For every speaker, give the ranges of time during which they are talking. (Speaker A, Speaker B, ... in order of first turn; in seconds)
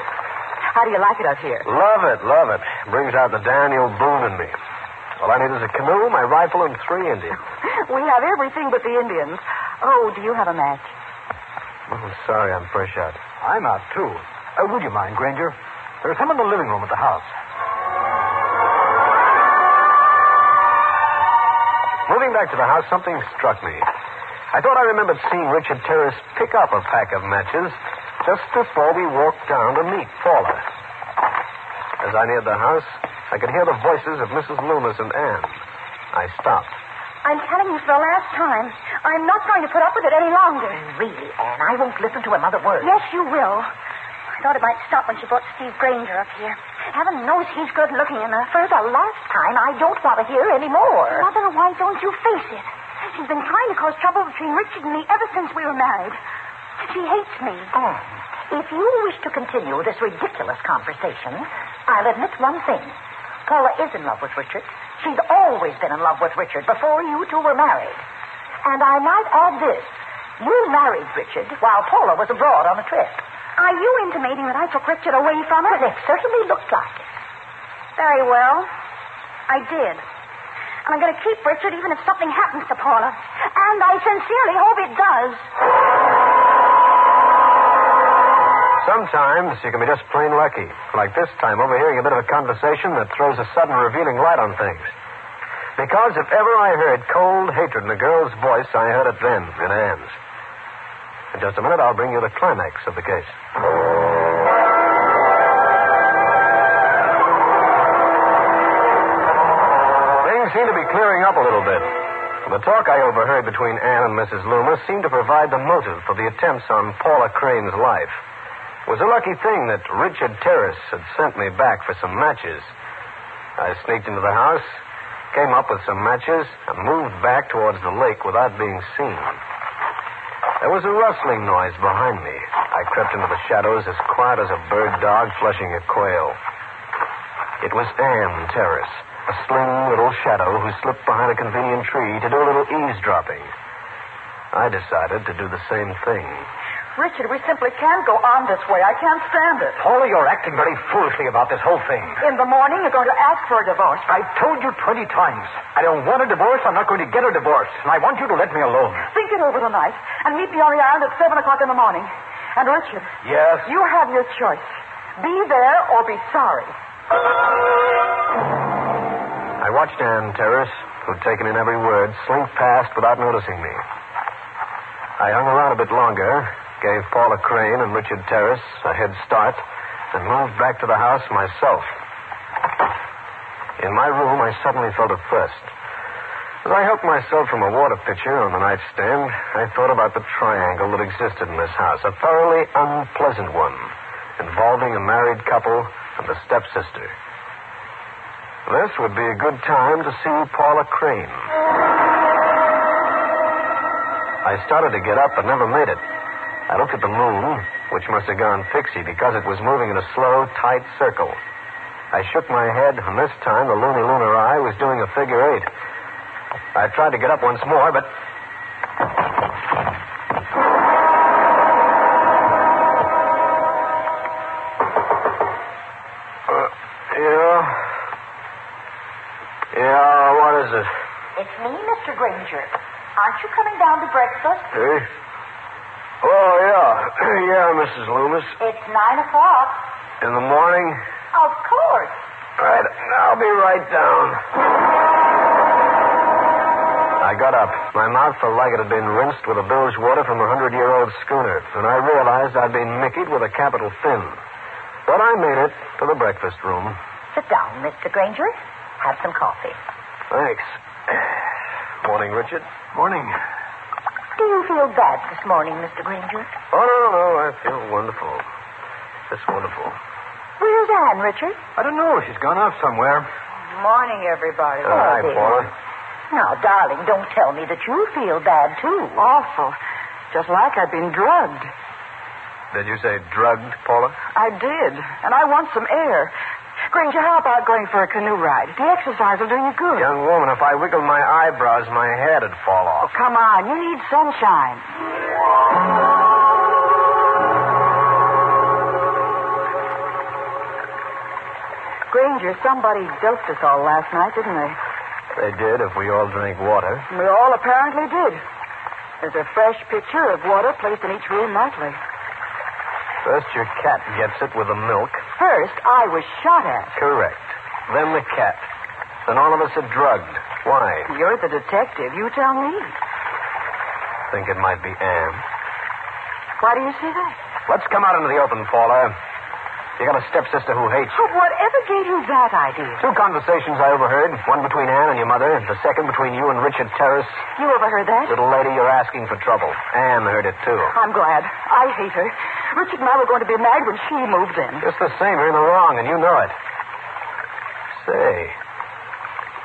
Speaker A: 0.7-1.7, 7.6-10.9, 51.8-52.1, 75.5-75.8, 147.0-149.8, 152.2-154.1, 159.1-163.1, 163.6-166.7, 273.7-275.2, 279.2-279.8, 280.3-281.7, 284.4-286.3, 286.9-290.1, 293.0-294.9, 302.1-304.8, 307.1-308.4, 309.2-312.0, 315.4-317.0, 321.1-323.0, 326.6-327.4, 331.1-333.0, 337.6-338.4, 340.9-344.9
Speaker B: 1.6-4.5, 5.2-7.4, 11.9-13.2, 22.1-23.9, 24.5-30.6, 32.0-35.6, 36.1-36.7, 88.8-94.9, 95.8-100.2, 101.3-103.4, 110.2-118.2, 118.9-122.7, 123.6-124.8, 125.3-129.4, 130.6-136.4, 137.6-143.5, 144.5-146.5, 169.6-173.8, 175.2-181.9, 183.8-185.7, 186.6-197.1, 198.7-201.5, 204.4-206.0, 206.7-211.4, 212.1-215.7, 216.8-218.1, 226.5-227.9, 229.7-230.9, 234.7-235.1, 236.2-238.6, 240.2-241.0, 242.6-244.4, 247.2-254.4, 255.1-257.0, 260.3-261.3, 262.0-262.7, 266.7-268.4, 269.3-270.0, 274.8-275.7, 282.7-284.2, 290.0-293.1, 305.3-307.1, 313.2-315.2, 317.0-318.7, 319.3-321.1, 324.3-325.4, 327.7-329.1, 330.0-331.3, 333.0-337.4, 338.3-341.0, 344.8-346.6, 348.0-348.6
Speaker C: 13.4-17.3, 149.8-152.2, 154.1-159.1, 163.2-163.7, 262.9-263.4, 271.8-273.3
Speaker D: 37.2-40.8, 42.8-43.7, 44.4-48.6, 51.2-56.1, 56.9-57.7, 73.6-75.8, 78.0-78.7, 79.5-80.0, 80.8-85.5
Speaker E: 40.7-43.0, 48.6-51.3, 57.7-63.0, 63.5-68.0, 68.6-73.2, 75.7-77.0, 231.3-234.7, 238.6-239.8, 241.3-242.2, 257.3-259.8, 264.4-266.5, 270.6-271.6, 274.8-275.7, 276.3-279.2